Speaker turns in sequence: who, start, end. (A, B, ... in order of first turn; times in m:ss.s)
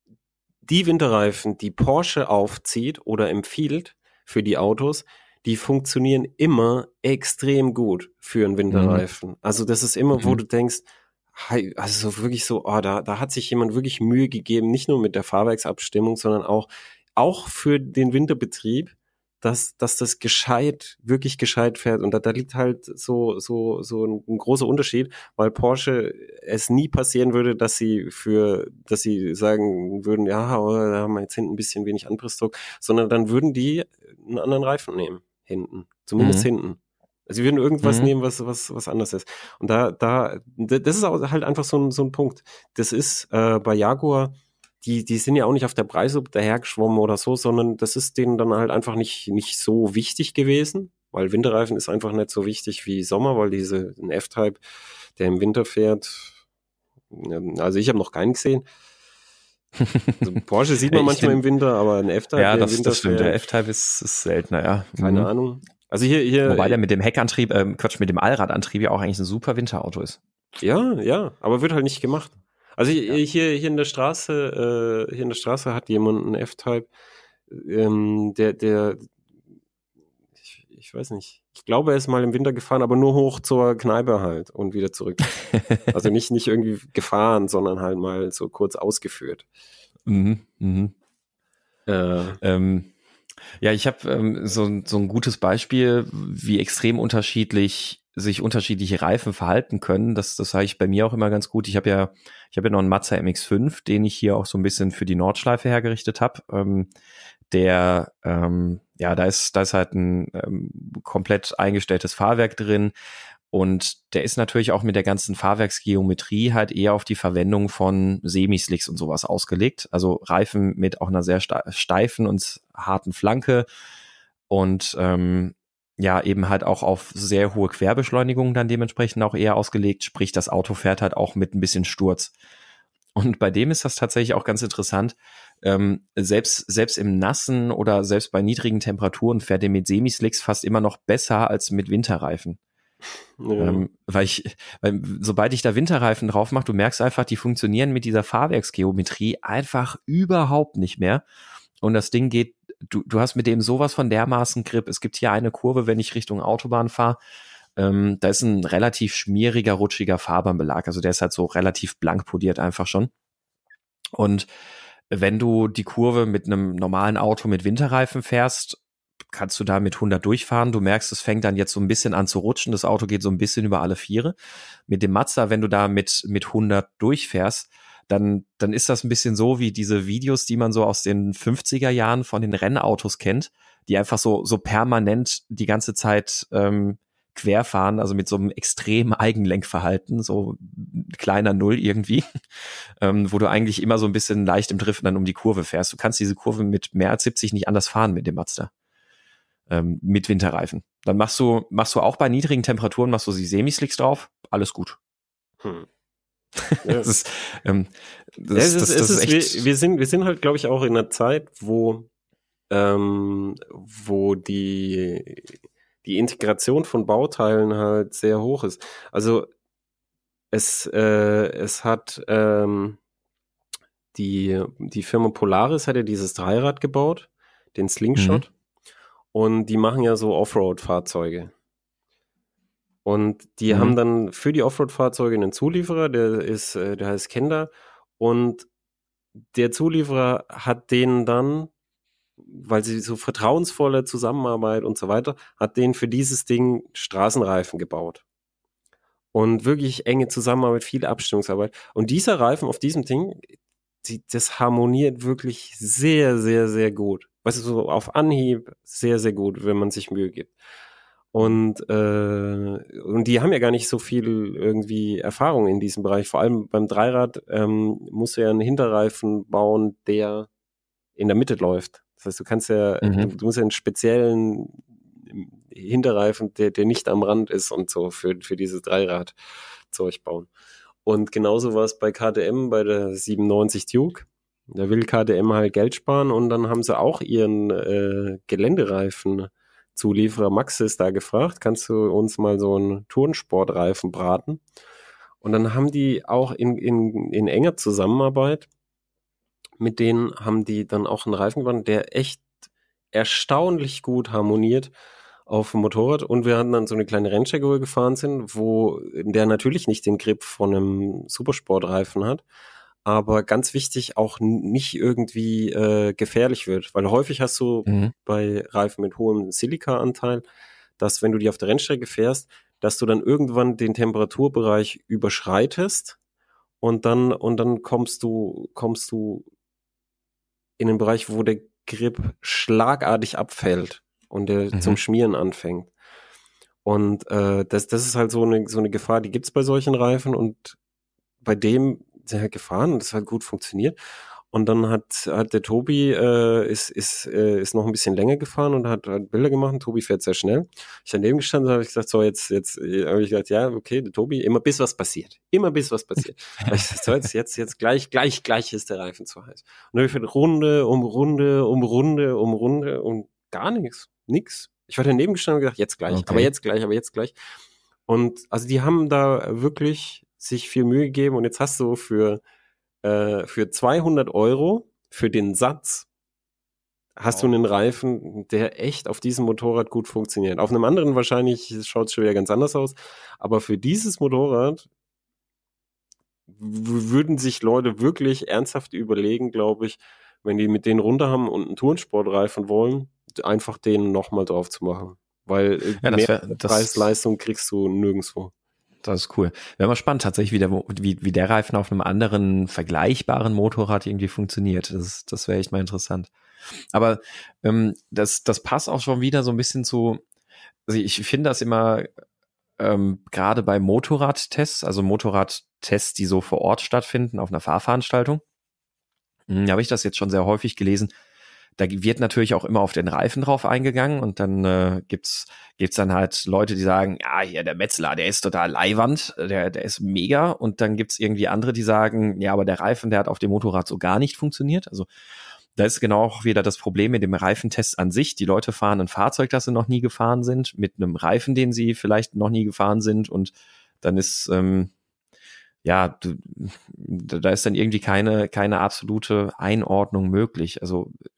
0:00.6-0:54.6 A
0:08.7-0:09.0 B
0:36.2-0:36.5 B
0:37.8-0:38.1 B
0:55.2-0:56.4 A
0:57.1-0:58.6 A
0:59.8-1:00.3 B
1:00.2-1:03.4 A
1:00.9-1:01.4 B
1:02.4-1:05.3 B
1:05.0-1:06.8 A
1:06.4-1:10.2 B
1:10.6-1:16.9 A
1:17.5-1:19.1 A
1:20.4-1:29.4 A
1:30.1-1:30.9 B
1:31.9-1:32.4 A
1:32.4-1:32.9 B
1:33.6-1:46.9 B
1:47.5-1:52.9 B
1:53.5-2:03.7 B
2:04.5-2:12.3 B
2:13.1-2:22.6 B
2:23.4-2:23.8 A
2:23.6-2:31.2 B
2:31.8-2:37.2 B
2:37.8-2:43.1 B
2:44.2-2:44.5 B
2:45.1-2:54.3 B
2:54.9-3:18.7 B
3:19.7-3:25.0 B
3:26.6-3:29.6 B
3:26.8-3:27.1 A
3:28.5-3:32.1 A
3:32.7-3:39.5 A
3:40.5-3:43.0 A
3:44.1-3:48.5 A
3:48.2-3:48.4 B
3:49.3-3:51.5 A
3:53.0-3:58.7 A
3:53.7-3:53.9 B
3:59.5-4:01.7 A
4:02.4-4:08.2 A
4:09.3-4:20.5 A
4:21.3-4:30.5 A
4:31.2-4:39.3 A
4:33.0-4:33.3 B
4:39.9-4:40.5 A
4:41.0-4:54.6 A
4:55.4-4:58.7 A
4:59.8-5:02.4 A
5:03.1-5:04.9 A
5:05.5-5:12.4 A
5:13.0-5:20.4 A
5:17.9-5:18.1 B
5:21.0-5:26.2 A
5:26.8-5:29.4 A
5:30.8-5:35.9 A
5:34.7-5:35.0 B
5:36.8-5:40.8 A
5:41.4-5:44.0 A
5:44.5-6:07.4 A
6:06.1-6:06.5 B
6:08.1-6:12.4 A
6:13.0-6:16.1 A
6:17.2-6:24.9 A
6:26.5-6:38.5 A
6:36.0-6:37.1 B
6:39.0-6:46.3 B
6:46.9-6:50.2 B
6:50.9-6:52.1 B
6:52.8-6:58.4 B
6:59.5-7:01.1 B
7:01.8-7:15.1 B
7:15.8-7:24.9 B
7:25.8-7:31.1 B